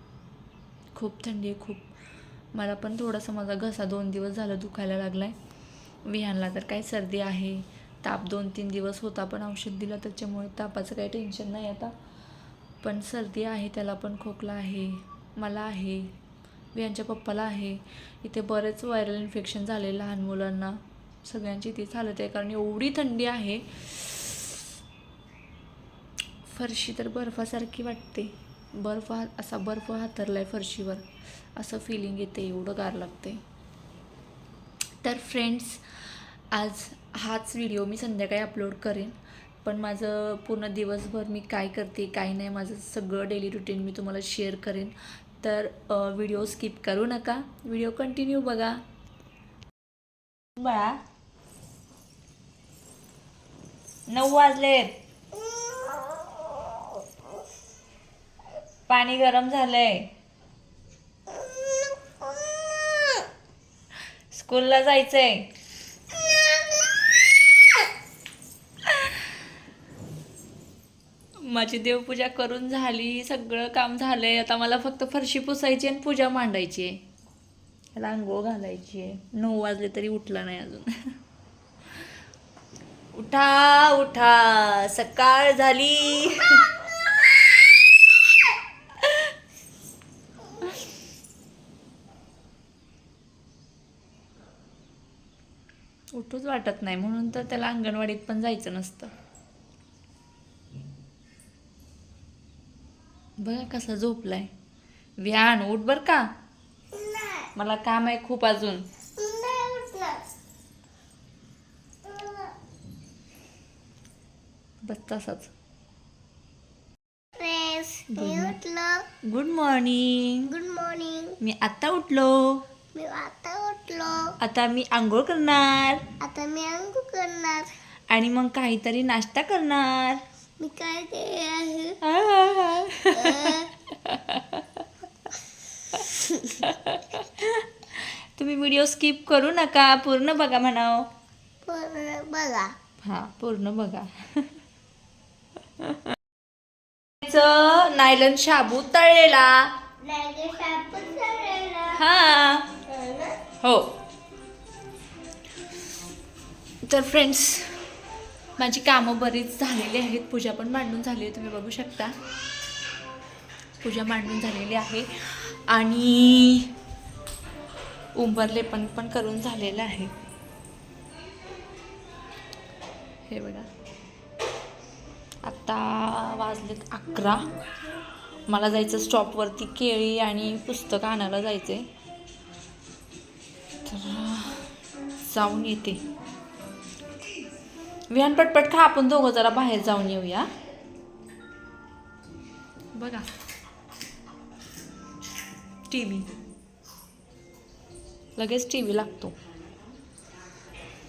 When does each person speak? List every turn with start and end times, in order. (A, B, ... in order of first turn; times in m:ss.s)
0:00.9-0:01.9 A
0:02.5-0:05.4 A
0:06.0-0:11.9 A
0:12.8-0:16.1 A
0:16.7-0:24.6 A
0:26.4-0:33.4 A
0:35.0-0:48.8 A
0:50.6-0:51.0 A
0:54.1-0:55.0 A
0:55.5-0:56.8 B
0:58.9-1:00.1 A
1:01.3-1:03.3 B
1:04.3-1:05.5 A
1:06.2-1:07.0 B
1:11.4-1:17.0 A
1:18.0-1:21.2 A
1:23.1-1:27.7 A
1:29.0-1:29.3 A
1:36.1-1:39.1 A
1:43.4-1:44.5 A
1:45.2-1:46.3 A
1:46.9-1:47.5 B
1:47.5-1:48.8 A
1:49.2-1:50.3 B
1:52.0-1:52.5 B
1:54.8-1:55.5 A
1:57.4-1:59.1 B
1:58.1-1:58.6 A
1:59.2-2:00.5 A
2:00.4-2:01.4 B
2:01.4-2:02.6 A
2:02.9-2:04.4 B
2:04.4-2:06.1 A
2:06.2-2:07.7 B
2:08.1-2:10.2 A
2:10.6-2:12.0 B
2:12.0-2:14.8 A
2:13.1-2:13.7 B
2:15.9-2:21.1 A
2:16.1-2:16.5 B
2:21.6-2:22.7 B
2:23.0-2:24.5 A
2:27.2-2:29.7 A
2:30.0-2:32.0 B
2:31.9-2:32.8 A
2:32.8-2:33.4 B
2:33.6-2:34.0 A
2:36.8-2:37.9 A
2:38.6-2:42.2 A
2:43.8-2:46.7 A
2:48.1-2:50.1 A
2:53.3-2:53.7 A
2:55.4-2:57.5 A
2:58.5-3:01.9 A
3:03.8-3:04.7 A
3:05.2-3:06.1 A
3:08.1-3:10.5 A
3:12.9-3:13.3 A
3:15.9-3:16.3 A
3:18.4-3:19.4 A